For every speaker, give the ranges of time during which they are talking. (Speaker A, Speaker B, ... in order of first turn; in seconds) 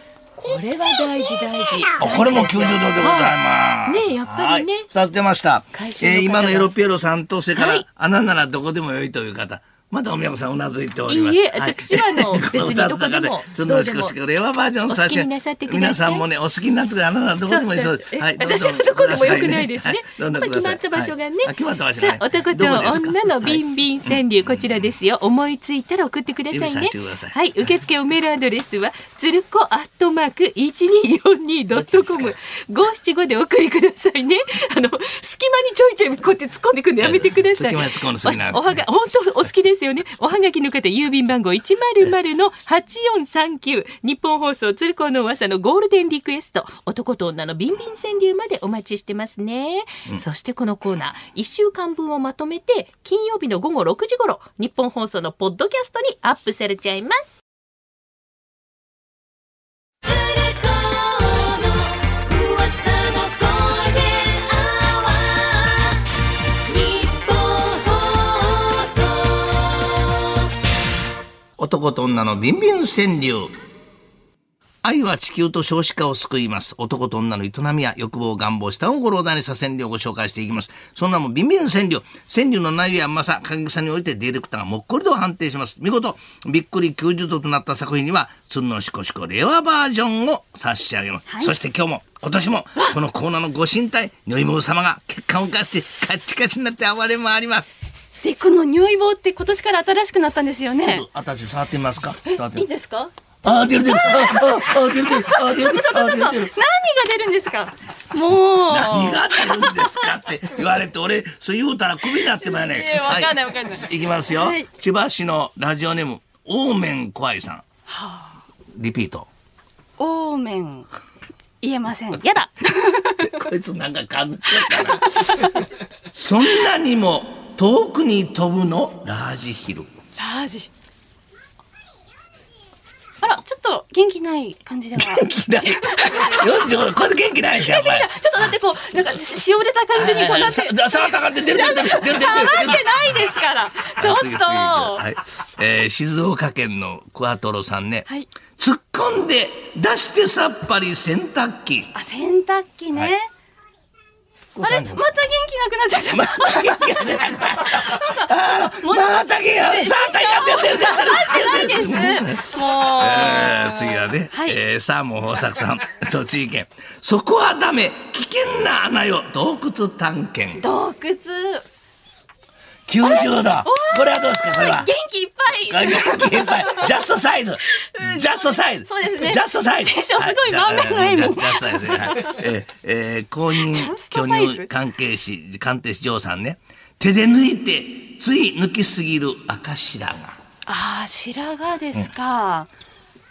Speaker A: 0.3-4.9, 5.7-6.7, 7.5-7.8, 11.1-14.1, 14.9-16.2, 17.4-57.3, 60.0-66.0, 66.6-70.2, 102.2-103.1, 137.6-142.8
Speaker B: 2.0-24.8, 26.5-27.4, 31.7-32.3, 37.0-38.8, 71.6-73.5, 74.8-97.7, 100.8-102.7, 103.4-106.5, 108.7-117.6, 118.7-119.3, 123.2-129.9, 134.9-138.5, 139.9-143.0, 143.9-151.9, 154.6-155.1, 156.0-170.6, 172.9-174.9, 175.7-190.4
Speaker C: 91.2-91.5, 98.2-101.0, 105.0-109.8, 112.4-114.7, 117.9-118.3, 120.0-120.9, 121.6-123.4, 124.6-125.1, 130.2-130.7, 133.2-135.3, 135.8-136.7, 141.7-145.0, 151.9-153.2, 154.6-157.1, 157.7-164.6, 170.6-171.6, 173.7-176.0, 179.0-179.3, 179.9-182.3, 183.7-184.7, 190.7-192.7